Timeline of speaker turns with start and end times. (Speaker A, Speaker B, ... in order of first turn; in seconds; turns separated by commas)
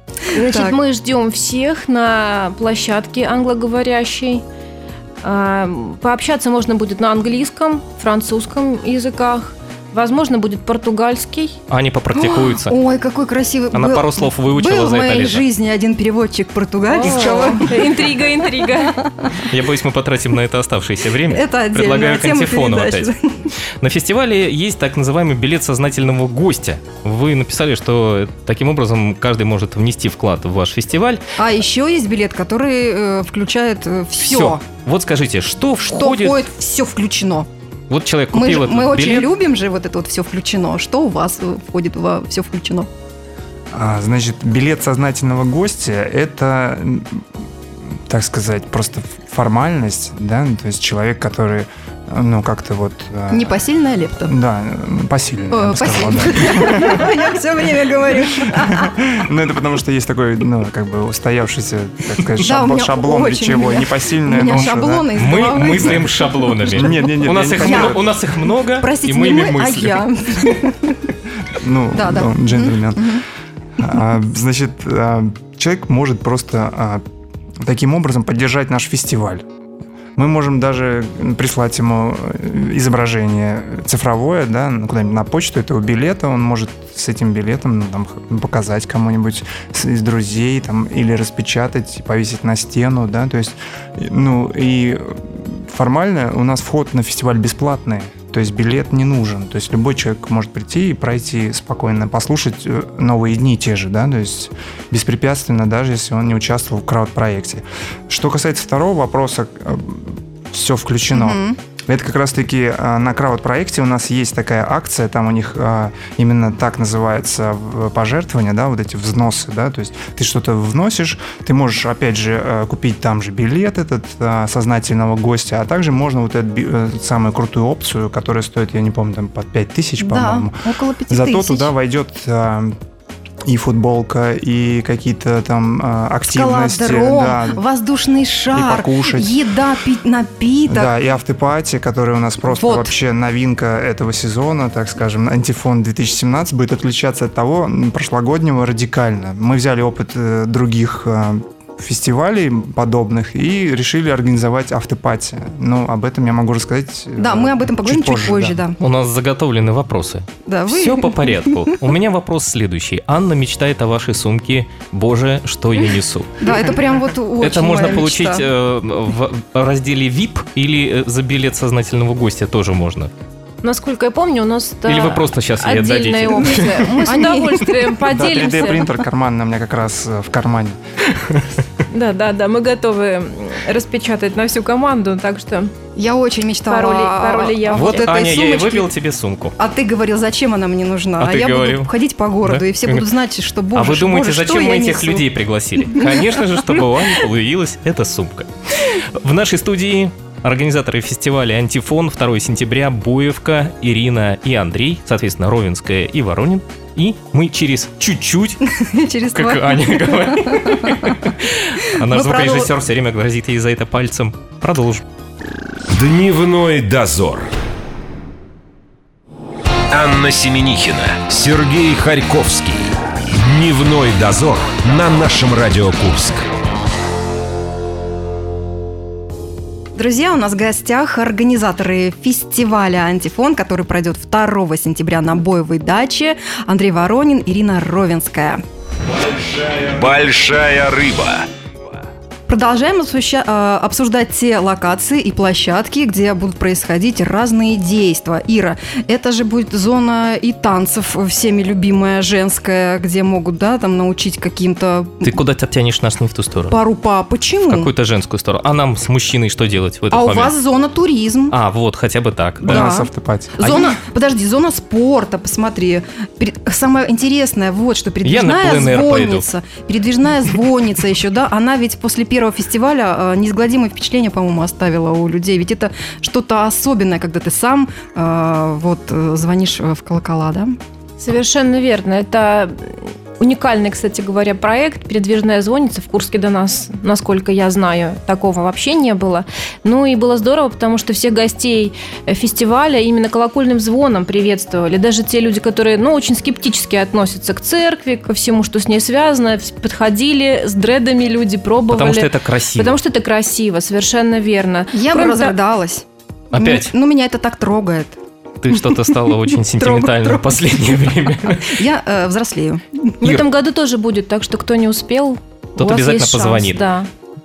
Speaker A: 0.3-4.4, Speaker B: 0.3-0.8, Speaker A: 5.2-11.6, Speaker C: 11.7-12.8, Speaker B: 12.1-19.5, Speaker C: 13.7-15.4, Speaker A: 16.9-19.0, Speaker C: 19.4-23.1, Speaker B: 21.2-23.5, Speaker C: 23.8-31.2, Speaker B: 31.4-34.6, Speaker C: 34.2-36.4, Speaker B: 35.8-37.5, Speaker C: 37.9-39.3, Speaker B: 38.3-42.9, Speaker D: 43.7-47.2, Speaker D: 48.1-53.5, Speaker B: 53.3-54.3, Speaker D: 54.3-57.2, Speaker B: 55.5-58.9, Speaker D: 58.4-65.1, Speaker B: 62.4-71.0, Speaker C: 64.5-70.1, Speaker D: 65.7-66.1, Speaker D: 66.7-68.1, Speaker D: 71.5-73.2, Speaker B: 71.9-73.2, Speaker D: 73.8-77.0, Speaker D: 77.6-79.4, Speaker D: 80.2-130.6, Speaker B: 111.1-111.6, Speaker B: 130.0-131.7, Speaker D: 131.1-132.7, Speaker D: 133.4-137.6, Speaker B: 136.3-140.9, Speaker D: 138.5-139.4, Speaker D: 140.7-158.6, Speaker B: 142.4-143.0, Speaker B: 157.2-158.8, Speaker C: 158.8-166.5, Speaker B: 160.4-161.8, Speaker B: 166.4-168.4, Speaker C: 167.4-173.1, Speaker A: 173.6-178.9, Speaker C: 174.8-177.4, Speaker B: 177.0-177.6, Speaker D: 178.1-180.8, Speaker C: 181.2-181.4, Speaker A: 181.9-185.7, Speaker B: 185.9-188.9, Speaker A: 186.7-188.1, Speaker C: 187.7-189.6, Speaker B: 189.6-195.3, Speaker C: 191.2-191.9, Speaker C: 192.4-193.1, Speaker C: 193.7-208.7, Speaker B: 195.8-196.3, Speaker B: 208.7-211.3, Speaker C: 209.3-215.0, Speaker B: 212.0-212.7, Speaker E: 215.9-217.5, Speaker E: 219.9-226.5, Speaker B: 229.9-238.6, Speaker E: 239.2-241.5, Speaker B: 242.5-255.4, Speaker C: 255.2-256.8, Speaker B: 256.7-257.9, Speaker C: 257.6-260.5, Speaker B: 260.1-261.6, Speaker C: 261.5-262.9, Speaker B: 262.6-280.8, Speaker D: 262.6-263.6, Speaker C: 263.6-263.9, Speaker C: 268.2-269.4, Speaker A: 281.2-305.6, Speaker C: 301.9-303.0, Speaker B: 304.9-308.2, Speaker C: 306.5-306.9, Speaker C: 308.6-311.8, Speaker B: 308.7-310.6, Speaker B: 311.5-313.1, Speaker A: 313.2-317.1, Speaker C: 313.2-313.5, Speaker C: 315.8-316.8